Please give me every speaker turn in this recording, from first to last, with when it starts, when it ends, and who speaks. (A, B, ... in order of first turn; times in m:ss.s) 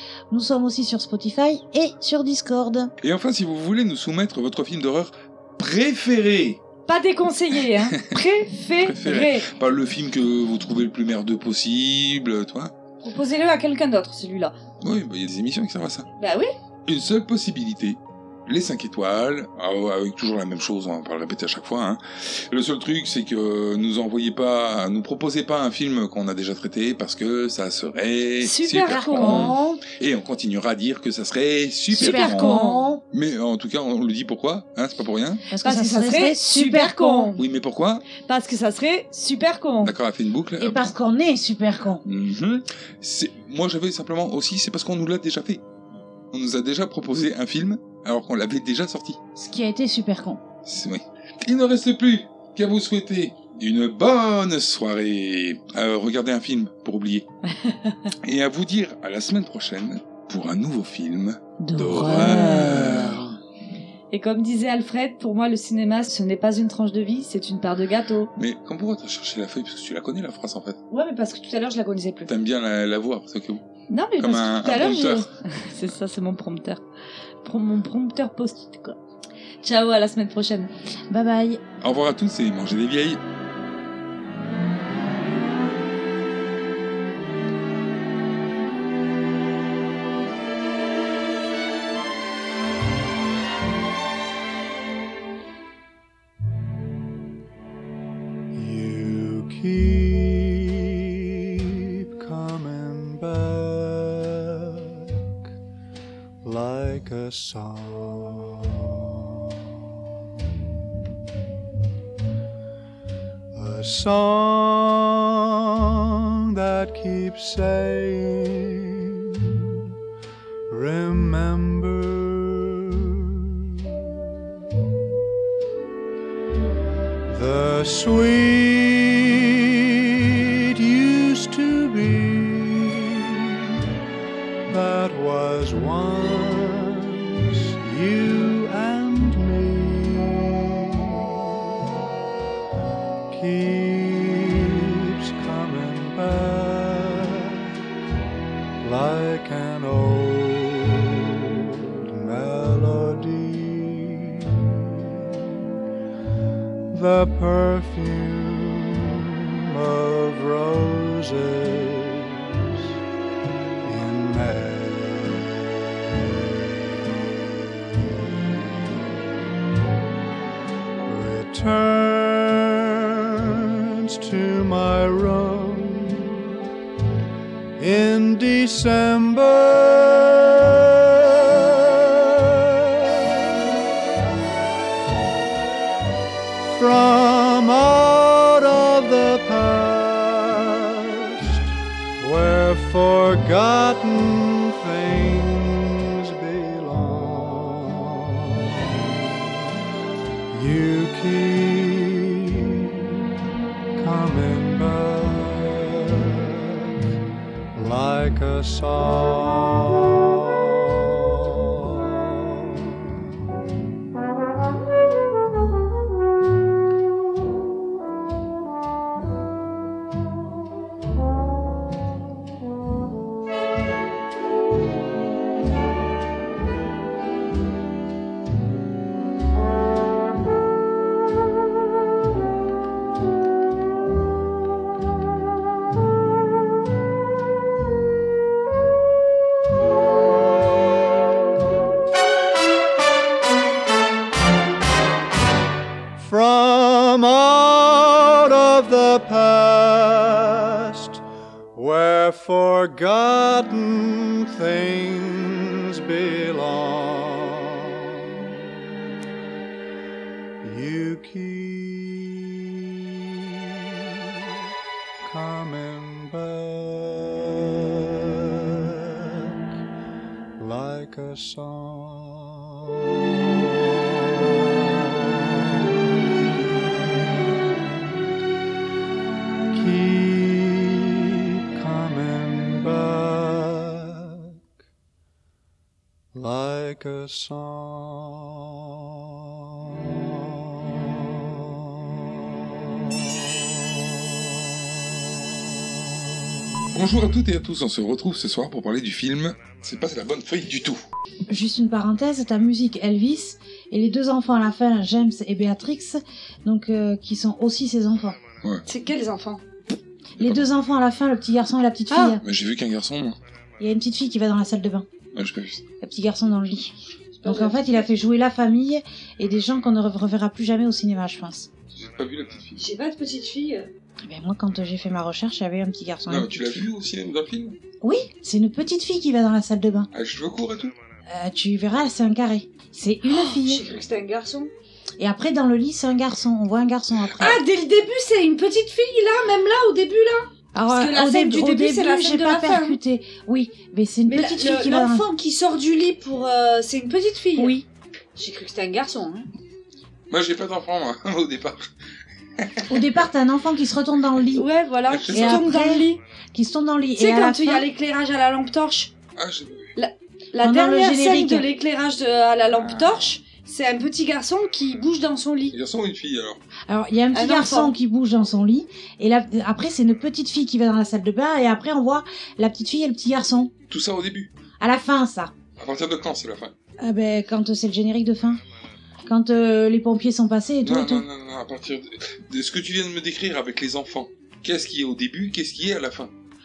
0:00.3-0:02.9 A
0:03.0-0:06.6 B
0:06.9-0:09.5 C
0:08.8-0:12.7 B
0:13.0-0:14.6 C
0:14.8-0:16.1 B
0:16.2-0:16.5 C
0:16.9-0:35.4 B
0:28.4-0:29.5 C
0:28.8-0:29.8 A
0:31.9-0:32.9 C
0:31.9-0:33.0 A
0:35.5-0:37.3 A
0:35.6-0:37.4 C
0:37.4-0:38.1 B
0:38.2-0:39.9 C
0:39.8-0:40.9 B
0:40.6-0:42.0 A
0:42.0-0:45.6 B
0:46.3-0:49.2 B
0:49.4-0:50.4 A
0:50.6-0:57.3 B
0:57.5-0:58.1 C
0:58.2-1:03.4 B
1:01.6-1:02.9 C
1:01.9-1:03.2 A
1:04.1-1:08.3 C
1:08.4-1:10.8 B
1:10.9-1:12.3 C
1:12.2-1:13.6 B
1:13.9-1:16.8 C
1:14.2-1:15.3 B
1:17.4-1:19.0 C
1:19.6-1:20.7 C
1:21.1-1:21.6 A
1:21.8-1:23.2 B
1:38.5-1:45.2 D
1:46.4-1:49.1 D
1:53.5-1:55.9 D
1:56.5-1:59.8 D
2:00.7-2:03.8 D
2:07.3-2:09.7 D
2:10.6-2:13.7 D
2:14.6-2:21.7 D
2:23.3-2:27.8 D
2:28.8-2:35.3 D
2:36.9-2:42.8 D
2:43.8-2:45.4 D
2:51.0-2:56.5 D
2:57.8-3:00.7 D
3:06.6-3:19.5 D
3:20.5-3:23.2 D
3:24.0-3:26.9 D
3:27.7-3:33.3 D
4:06.1-4:11.2 D
4:11.7-4:18.5 D
4:20.6-4:22.7 D
4:25.2-4:28.1 D
4:28.7-4:29.6 D
4:30.6-4:33.1 D
4:34.4-4:36.7 D
4:39.7-4:44.6 D
4:46.3-4:48.8 D
4:49.8-4:54.2 D
4:56.9-5:01.0 B
5:01.5-5:08.4 A
5:08.8-5:09.6 C
5:10.4-5:10.6 B
5:10.4-5:12.4 A
5:12.1-5:12.4 C
5:12.4-5:13.4 B
5:13.8-5:15.0 A
5:15.3-5:15.8 B
5:15.9-5:16.9 A
5:17.4-5:18.2 C
5:17.4-5:21.7 A
5:21.9-5:22.8 B
5:22.8-5:23.9 C
5:24.2-5:26.8 A
5:26.3-5:27.8 B
5:28.0-5:30.1 A
5:30.1-5:30.9 B
5:31.3-5:33.8 A
5:33.3-5:34.7 C
5:35.2-5:37.6 A
5:37.3-5:37.6 B
5:37.4-5:43.0 C
5:40.7-5:45.2 A
5:44.2-5:47.8 C
5:47.6-5:47.8 A
5:48.4-5:49.5 C
5:50.3-5:51.8 B
5:52.9-5:54.6 A
5:54.5-5:56.2 C
5:55.1-5:55.6 B
5:55.3-5:57.9 A
5:57.2-5:59.1 C
5:59.4-5:59.9 B
6:00.0-6:05.7 C
6:00.6-6:01.6 A
6:02.8-6:03.3 B
6:05.7-6:06.6 B
6:06.9-6:13.7 A
6:07.3-6:07.9 C
6:13.9-6:14.5 B
6:14.8-6:15.5 A
6:15.8-6:16.7 B
6:17.0-6:18.6 A
6:19.2-6:21.2 A
6:20.8-6:26.3 B